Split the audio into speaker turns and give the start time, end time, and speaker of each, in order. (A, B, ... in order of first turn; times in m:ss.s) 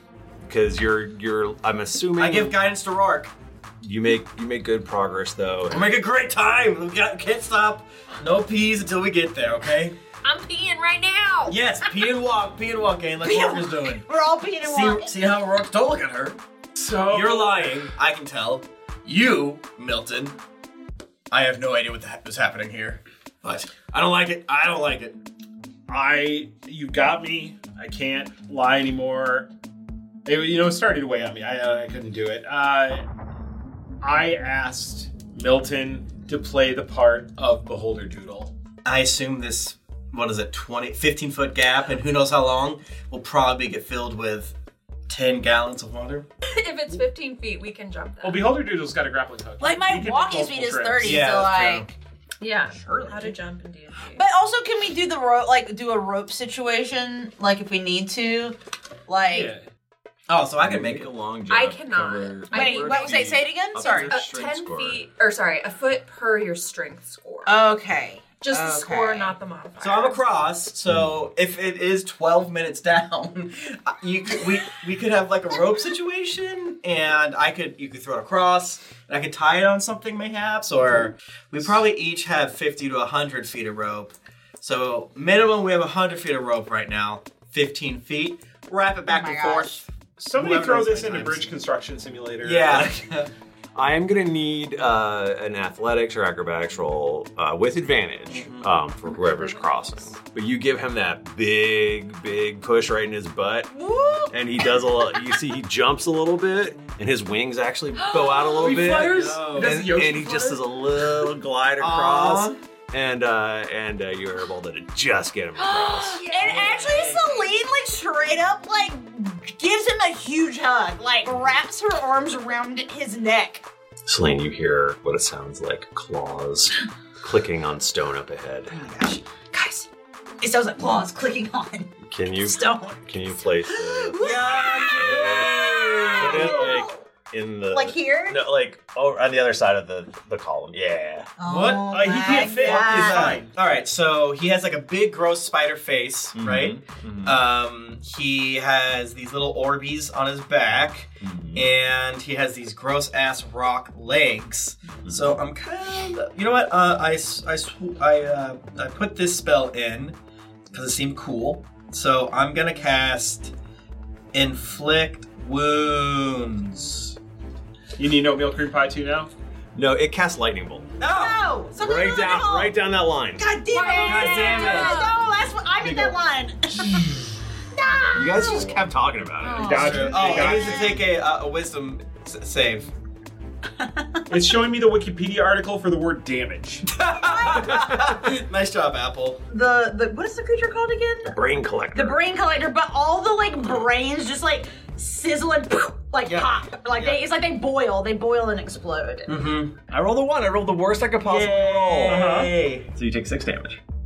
0:00.4-0:02.6 A
0:02.2-0:03.3 B
0:03.8-0:05.8 A
0:05.7-0:10.0 B
0:10.2-0:11.6 C
0:11.5-0:14.1 B
0:13.2-0:15.1 D
0:14.6-0:16.4 B
0:16.8-0:17.8 E
0:17.0-0:20.4 B
0:21.3-0:25.2 B
0:25.9-0:29.5 E
0:30.2-0:33.0 E
0:34.0-0:38.5 E
0:38.8-0:44.5 B
0:45.1-0:46.3 B
0:46.5-0:48.6 C
0:48.2-0:51.4 E
0:49.6-0:51.9 D
0:51.0-0:51.9 B
0:52.4-0:54.2 C
0:54.1-0:59.5 D
0:59.3-0:59.6 E
1:00.3-1:01.1 B
1:00.6-1:05.0 A
1:01.5-1:07.7 C
1:02.5-1:04.1 D
1:07.4-1:09.4 D
1:08.4-1:10.2 C
1:09.8-1:31.5 B
1:29.0-1:29.8 D
1:30.2-1:32.9 E
1:32.4-1:33.3 B
1:33.7-1:43.7 A
1:43.7-1:45.0 D
1:44.3-1:56.2 A
1:48.5-1:50.6 E
1:48.8-1:49.9 B
1:51.8-1:52.6 B
1:55.6-1:57.4 C
1:56.2-2:03.6 D
1:56.4-1:57.2 B
2:04.0-2:08.8 A
2:08.7-2:09.9 D
2:10.4-2:17.0 D
2:12.0-2:21.3 A
2:14.2-2:16.7 B
2:17.7-2:18.4 D
2:21.4-2:23.4 D
2:21.4-2:40.2 B
2:21.8-2:23.5 E
2:26.3-2:27.4 A
2:31.2-2:31.7 A
2:35.0-2:35.4 A
2:40.7-2:43.5 B
2:44.3-2:47.1 B
2:48.0-2:49.3 E
2:49.7-2:50.9 A
2:51.0-2:52.8 D
2:51.0-2:51.4 B
2:51.8-2:53.5 A
2:53.4-2:57.1 D
2:53.7-2:55.3 C
2:54.0-2:55.1 B
2:55.8-2:56.1 B
2:57.7-2:58.8 D
2:58.1-2:59.7 A
2:59.4-3:01.0 D
2:59.5-3:01.0 E
2:59.7-3:02.9 B
3:03.8-3:04.4 D
3:04.3-3:06.8 E
3:06.9-3:09.4 B
3:07.1-3:07.7 D
3:09.5-3:11.4 D
3:11.3-3:12.2 A
3:11.9-3:19.4 D
3:16.2-3:17.2 B
3:19.3-3:19.7 B
3:19.9-3:22.2 A
3:21.2-3:22.9 B
3:22.0-3:22.5 E
3:22.9-3:23.8 A